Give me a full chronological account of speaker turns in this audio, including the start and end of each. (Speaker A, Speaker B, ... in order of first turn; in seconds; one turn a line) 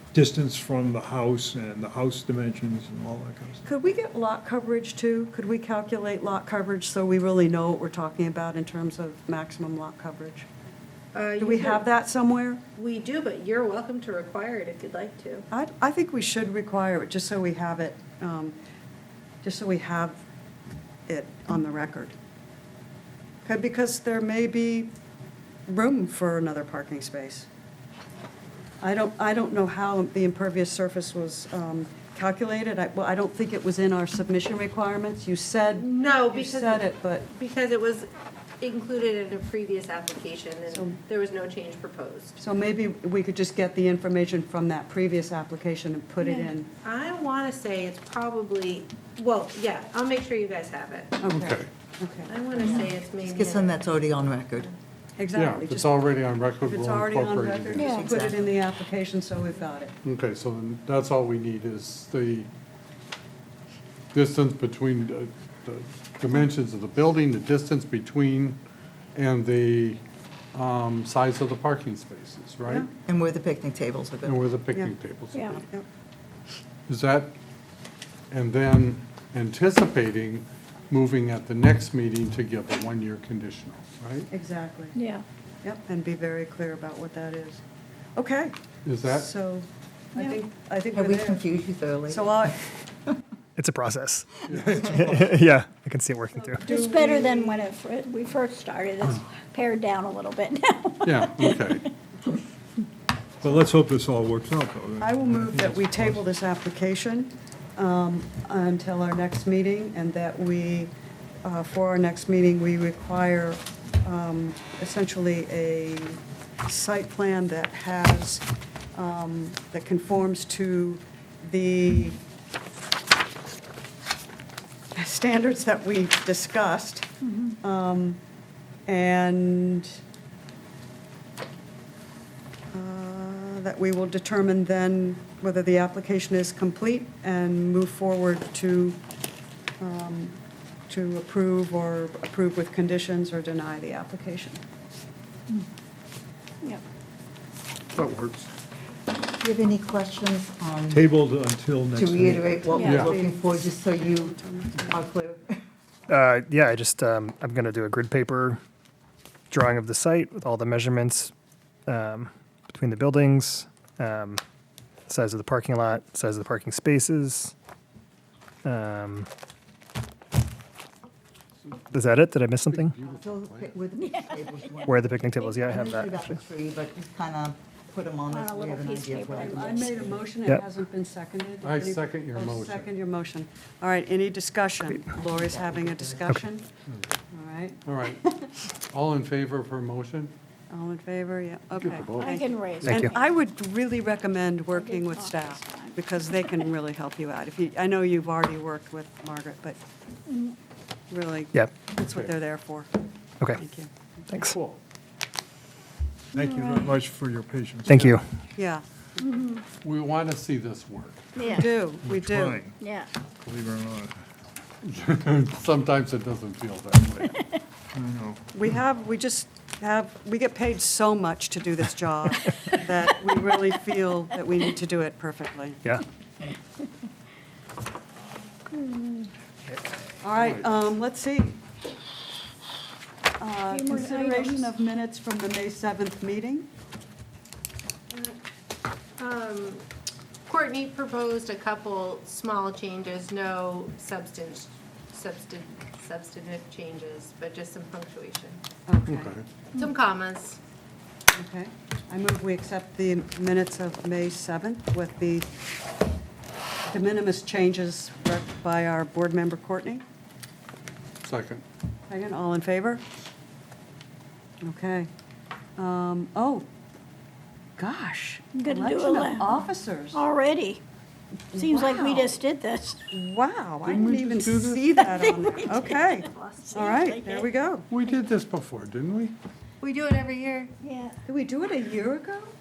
Speaker A: 0.1-3.6
Speaker B: 3.6-10.5
Speaker C: 11.1-11.8
Speaker B: 11.4-12.6
Speaker C: 12.8-15.4
Speaker B: 15.5-18.5
Speaker B: 19.4-20.2
Speaker B: 21.1-22.1
Speaker B: 23.4-24.9
Speaker B: 25.7-27.5
Speaker B: 28.8-37.2
Speaker C: 35.7-38.1
Speaker C: 38.6-42.4
Speaker B: 40.7-41.0
Speaker B: 42.4-46.7
Speaker C: 46.2-51.3
Speaker B: 51.2-52.8
Speaker D: 51.4-51.7
Speaker C: 52.3-53.8
Speaker E: 53.2-54.7
Speaker B: 55.2-59.9
Speaker D: 55.3-57.8
Speaker F: 57.7-58.1
Speaker E: 57.8-58.5
Speaker D: 60.0-62.5
Speaker D: 64.1-68.6
Speaker D: 69.1-70.0
Speaker D: 70.5-72.8
Speaker E: 73.0-74.5
Speaker D: 74.2-75.5
Speaker F: 75.3-75.6
Speaker B: 75.5-75.8
Speaker D: 76.9-77.3
Speaker D: 78.3-84.3
Speaker B: 84.3-85.0
Speaker F: 84.9-85.2
Speaker B: 85.6-87.6
Speaker B: 88.2-91.5
Speaker D: 88.8-89.3
Speaker E: 90.9-92.5
Speaker B: 92.1-92.6
Speaker G: 93.6-96.7
Speaker D: 94.5-95.4
Speaker A: 94.5-95.2
Speaker B: 96.3-97.7
Speaker F: 96.6-102.3
Speaker D: 101.0-101.8
Speaker A: 103.4-106.3
Speaker B: 105.0-110.9
Speaker B: 111.4-122.2
Speaker B: 124.9-127.1
Speaker F: 127.2-127.5
Speaker B: 127.6-128.2
Speaker B: 128.9-130.0
Speaker B: 132.7-139.0
Speaker B: 139.8-140.4
Speaker B: 140.9-144.6
Speaker D: 148.0-148.3
Speaker A: 148.0-148.5
Speaker E: 149.4-151.0
Speaker A: 150.9-152.8
Speaker E: 151.9-155.6
Speaker F: 152.7-153.1
Speaker B: 152.8-155.1
Speaker G: 156.1-158.6
Speaker G: 159.5-161.3
Speaker G: 161.9-164.4
Speaker G: 165.1-167.5
Speaker G: 168.6-169.3
Speaker G: 171.9-173.0
Speaker D: 172.7-173.7
Speaker E: 173.0-180.2
Speaker F: 174.0-174.8
Speaker G: 174.8-176.4
Speaker F: 178.3-180.2
Speaker B: 179.3-186.7
Speaker D: 181.6-182.9
Speaker E: 185.2-186.3
Speaker B: 187.3-187.8
Speaker D: 187.8-188.2
Speaker D: 188.9-190.3
Speaker B: 190.7-199.8
Speaker D: 191.8-192.3
Speaker F: 192.2-193.3
Speaker G: 192.8-193.2
Speaker F: 194.7-196.7
Speaker F: 200.3-200.6
Speaker B: 201.1-202.9
Speaker B: 203.6-204.3
Speaker G: 204.3-204.6
Speaker D: 204.4-204.8
Speaker A: 206.3-208.2
Speaker F: 206.3-206.9
Speaker G: 207.9-208.2
Speaker B: 208.6-209.4
Speaker F: 209.2-209.6
Speaker D: 209.8-211.3
Speaker F: 211.3-211.8
Speaker B: 211.4-212.6
Speaker A: 212.0-212.8
Speaker F: 212.8-213.1
Speaker A: 213.4-214.2
Speaker D: 214.8-217.3
Speaker A: 217.9-218.4
Speaker B: 218.5-225.9
Speaker F: 228.7-229.3
Speaker B: 230.2-231.6
Speaker B: 233.4-236.7
Speaker F: 233.7-234.7
Speaker C: 238.1-238.3
Speaker C: 239.2-239.8
Speaker C: 240.5-248.6
Speaker B: 248.9-249.3
Speaker D: 249.1-249.4
Speaker C: 249.8-250.6
Speaker B: 251.3-255.5
Speaker B: 256.9-260.0
Speaker D: 261.2-261.6
Speaker B: 262.1-263.0
Speaker B: 264.6-265.1
Speaker B: 265.8-266.6
Speaker B: 267.8-270.2
Speaker F: 268.5-269.5
Speaker F: 270.1-270.8
Speaker B: 271.5-272.3
Speaker F: 271.5-273.1
Speaker B: 273.1-277.9
Speaker D: 273.9-274.8
Speaker F: 274.9-277.5
Speaker C: 276.3-276.8
Speaker D: 277.9-279.3
Speaker C: 279.8-280.8
Speaker F: 280.8-281.1
Speaker B: 281.2-282.5